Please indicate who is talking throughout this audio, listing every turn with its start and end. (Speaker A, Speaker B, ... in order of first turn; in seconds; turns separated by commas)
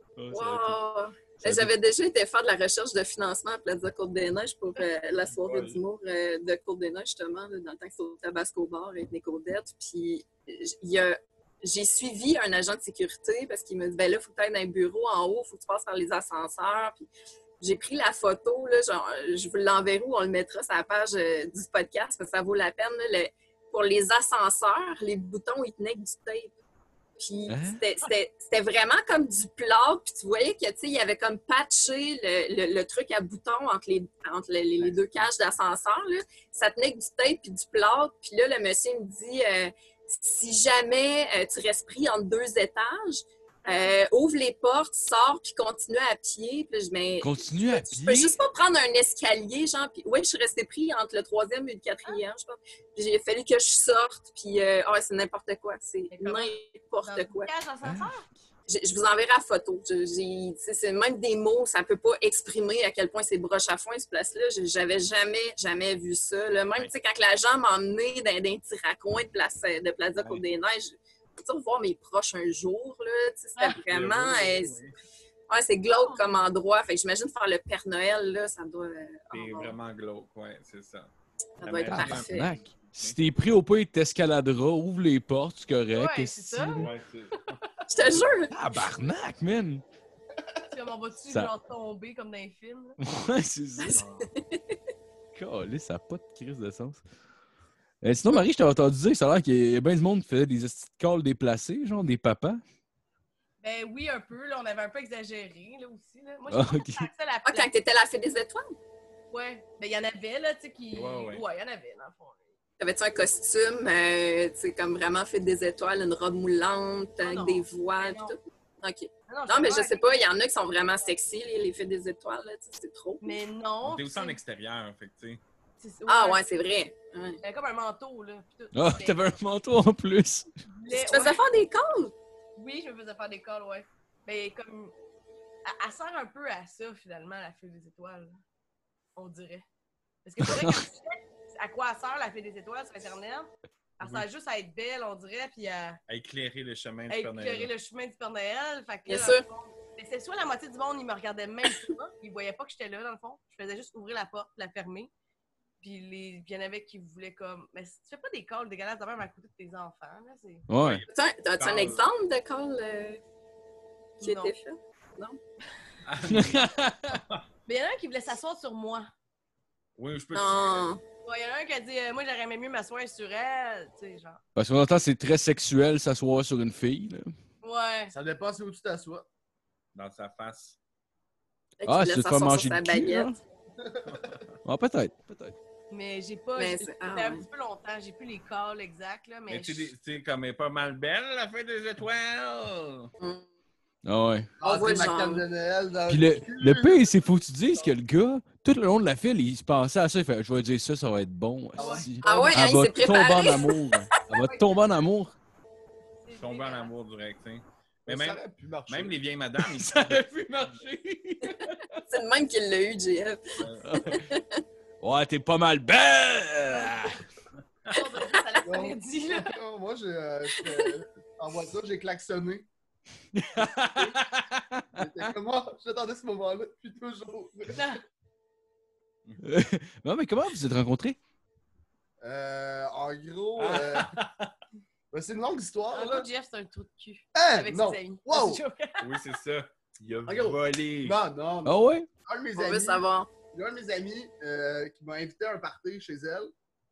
Speaker A: 0.2-0.8, Speaker B: 0.3-17.1, Speaker A: 1.4-1.7, Speaker C: 5.2-5.8, Speaker B: 17.6-26.5, Speaker B: 27.2-57.5, Speaker A: 27.5-27.8, Speaker D: 43.6-43.9, Speaker A: 47.2-48.4, Speaker D: 56.1-58.2, Speaker A: 57.8-58.3, Speaker B: 58.7-74.8, Speaker C: 70.2-70.4, Speaker C: 73.8-74.9, Speaker B: 75.5-79.8, Speaker D: 75.9-76.4, Speaker C: 79.3-81.1, Speaker B: 81.6-82.5, Speaker C: 81.6-83.2, Speaker A: 81.9-86.9, Speaker D: 85.9-87.6, Speaker C: 86.8-87.6, Speaker B: 87.9-88.5, Speaker A: 88.5-89.8, Speaker D: 90.7-93.0, Speaker A: 91.3-91.5, Speaker A: 93.0-94.0, Speaker B: 93.8-94.8, Speaker C: 93.9-94.3, Speaker A: 95.3-97.0, Speaker A: 98.0-102.6, Speaker D: 103.6-107.7, Speaker A: 106.5-107.1, Speaker B: 107.4-108.7, Speaker D: 109.3-112.5, Speaker C: 110.9-111.4, Speaker B: 112.8-123.4, Speaker D: 117.2-118.3, Speaker D: 119.3-120.1, Speaker D: 123.2-124.4, Speaker C: 123.8-125.4, Speaker D: 125.8-126.5, Speaker B: 126.0-127.4, Speaker D: 127.4-129.2, Speaker A: 128.7-130.5, Speaker D: 130.7-131.4, Speaker B: 130.9-132.1, Speaker D: 132.6-134.9, Speaker D: 135.7-138.4, Speaker D: 139.2-139.6, Speaker D: 140.2-146.0, Speaker A: 140.4-140.8, Speaker C: 144.0-144.2, Speaker C: 146.1-147.7, Speaker D: 147.1-155.1, Speaker B: 149.1-149.4, Speaker D: 155.8-160.6, Speaker A: 160.7-161.0, Speaker C: 160.8-162.1, Speaker B: 161.1-163.2, Speaker D: 164.2-164.5, Speaker B: 164.2-165.4, Speaker C: 166.1-167.4, Speaker A: 166.2-167.2, Speaker D: 167.7-169.1, Speaker C: 170.0-170.9, Speaker B: 170.3-171.0, Speaker D: 171.2-174.4, Speaker A: 174.6-177.3, Speaker D: 177.6-178.1, Speaker E: 178.1-179.2, Speaker C: 179.9-180.8, Speaker B: 181.8-183.4, Speaker A: 181.8-183.4, Speaker E: 183.8-184.3, Speaker C: 184.1-184.4, Speaker A: 184.6-185.6, Speaker D: 185.9-189.9, Speaker B: 186.6-187.4, Speaker C: 189.5-193.1, Speaker B: 193.2-193.4, Speaker A: 194.0-194.5, Speaker E: 194.6-197.2, Speaker B: 194.6-195.4, Speaker A: 196.1-205.3, Speaker E: 201.8-202.4, Speaker D: 201.8-202.1, Speaker B: 202.2-204.0, Speaker D: 206.2-206.9, Speaker C: 206.4-210.8, Speaker E: 208.1-209.2, Speaker A: 209.6-212.1, Speaker B: 212.1-214.6, Speaker C: 213.6-214.1, Speaker A: 213.8-214.2, Speaker A: 215.0-217.2, Speaker D: 216.7-217.2, Speaker D: 217.9-219.6, Speaker E: 218.6-222.7, Speaker B: 220.6-220.9, Speaker A: 223.3-225.3, Speaker E: 224.9-227.9, Speaker D: 227.7-228.0, Speaker A: 229.4-231.2, Speaker E: 232.2-234.1, Speaker C: 233.6-234.5, Speaker E: 235.1-236.3, Speaker D: 235.9-239.2, Speaker E: 237.3-238.6, Speaker C: 239.0-241.2, Speaker E: 240.2-246.5, Speaker A: 241.6-242.1, Speaker B: 242.6-243.3